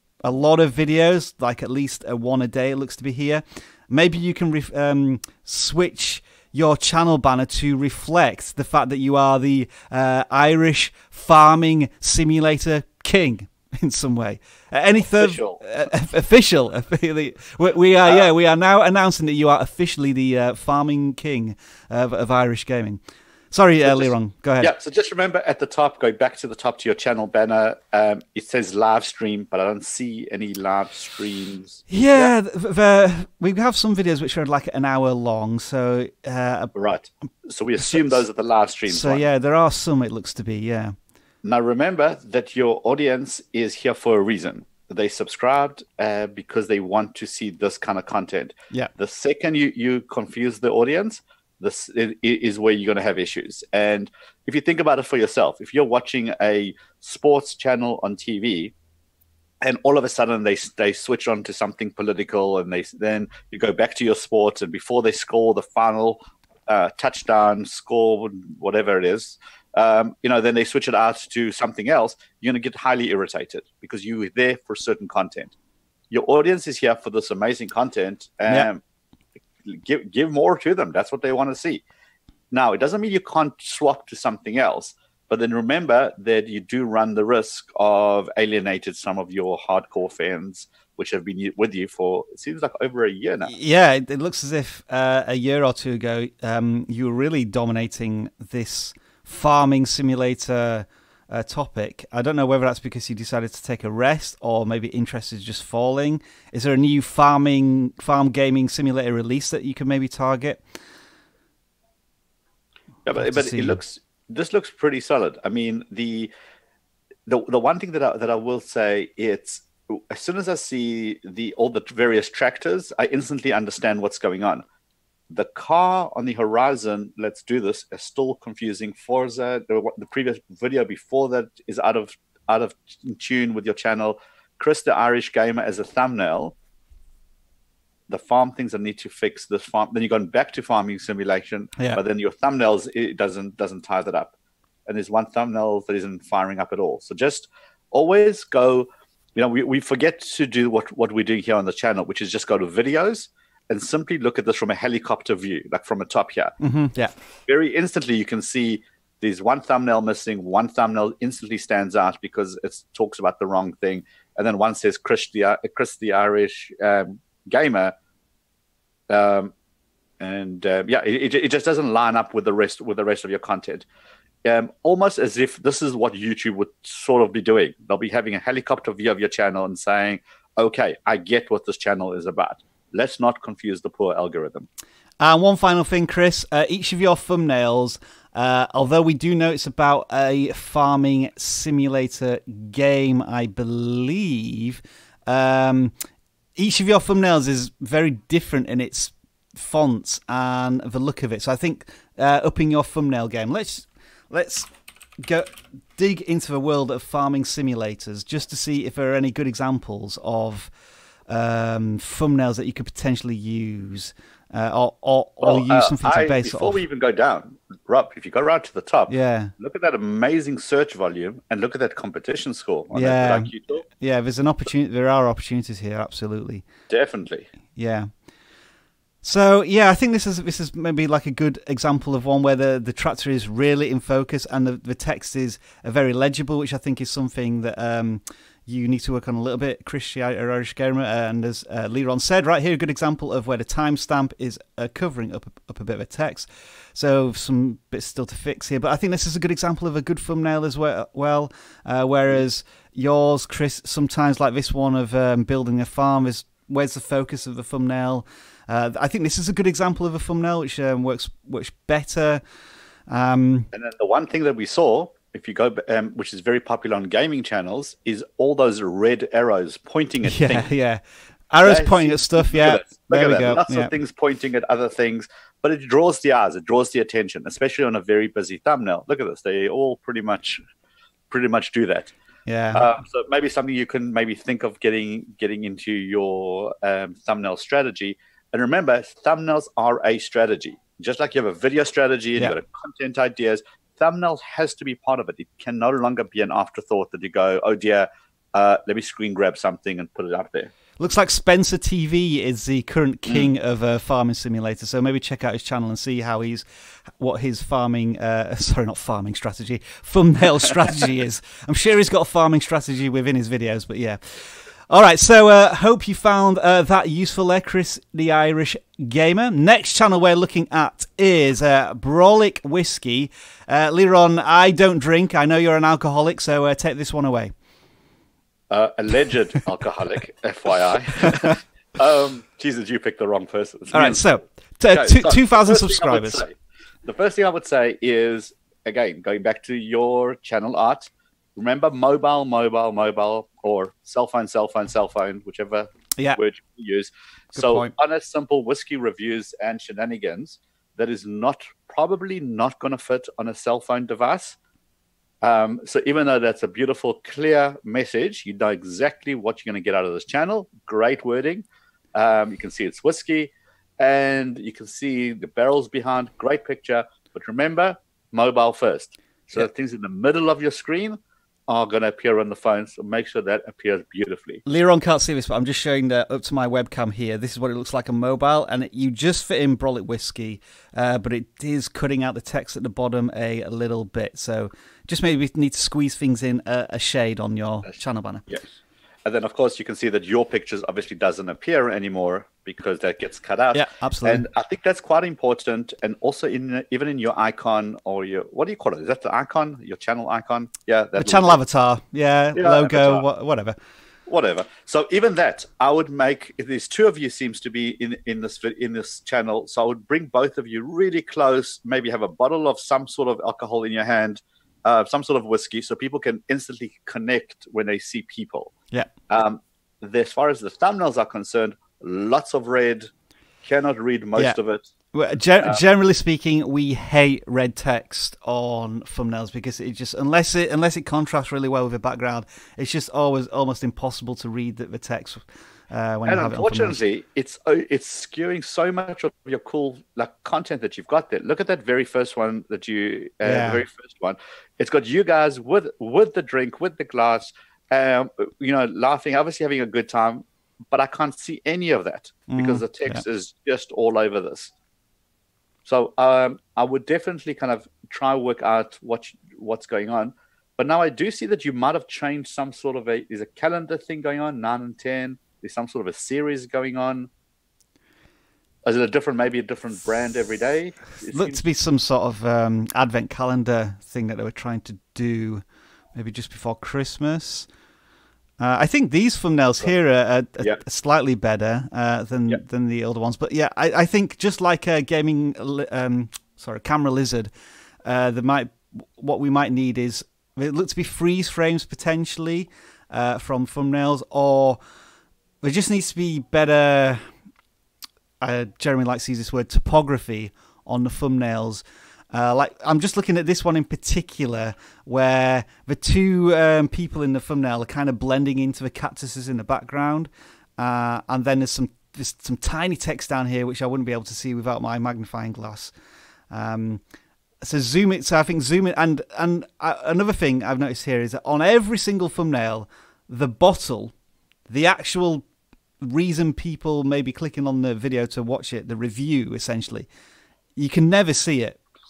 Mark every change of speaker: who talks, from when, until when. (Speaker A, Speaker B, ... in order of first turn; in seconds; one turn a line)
Speaker A: 0.2-23.0
Speaker B: 15.1-15.6
Speaker A: 23.5-24.7
Speaker B: 23.8-32.3
Speaker A: 31.9-36.7
Speaker B: 36.7-39.2
Speaker A: 38.9-41.0
Speaker B: 41.4-58.7
Speaker B: 59.6-75.5
Speaker B: 76.1-78.8
Speaker B: 79.6-81.8
Speaker B: 82.5-93.5
Speaker A: 93.5-110.6
Speaker B: 113.0-116.3
Speaker A: 113.2-113.8
Speaker B: 117.2-124.6
Speaker B: 125.3-136.5
Speaker B: 138.1-144.3
Speaker B: 144.8-156.5
Speaker A: 156.6-157.1
Speaker B: 157.5-167.9
Speaker B: 169.1-169.5
Speaker B: 170.2-173.8
Speaker B: 174.4-184.7
Speaker A: 185.2-195.9
Speaker A: 196.6-204.7
Speaker A: 205.2-210.7
Speaker A: 211.3-216.8
Speaker B: 215.4-223.8
Speaker A: 219.1-219.5
Speaker A: 222.9-226.6
Speaker B: 226.9-227.5
Speaker A: 227.7-228.1
Speaker A: 229.2-262.4
Speaker A: 263.1-263.7
Speaker B: 263.7-270.7
Speaker A: 270.2-273.9
Speaker B: 271.6-280.6
Speaker B: 281.3-282.1
Speaker A: 282.5-282.8
Speaker B: 282.7-300.7
Speaker A: 301.0-306.6
Speaker A: 307.2-327.5
Speaker B: 328.7-334.2
Speaker A: 333.9-336.4
Speaker B: 334.9-354.6
Speaker A: 347.6-347.9
Speaker B: 355.4-374.6
Speaker A: 374.6-388.5
Speaker B: 389.2-401.6
Speaker A: 393.7-394.4
Speaker A: 401.2-403.8
Speaker B: 402.5-403.2
Speaker B: 404.3-418.7
Speaker B: 419.3-423.1
Speaker B: 423.6-424.8
Speaker A: 425.1-437.0
Speaker B: 436.2-454.7
Speaker A: 443.4-443.8
Speaker A: 452.5-453.2
Speaker B: 455.9-467.3
Speaker B: 468.8-471.6
Speaker A: 471.2-477.7
Speaker A: 478.6-487.5
Speaker A: 488.0-494.8
Speaker A: 495.6-497.2
Speaker A: 498.4-515.9
Speaker A: 516.5-517.0
Speaker A: 517.6-524.1
Speaker A: 524.7-525.4
Speaker A: 526.0-530.1
Speaker A: 530.8-531.8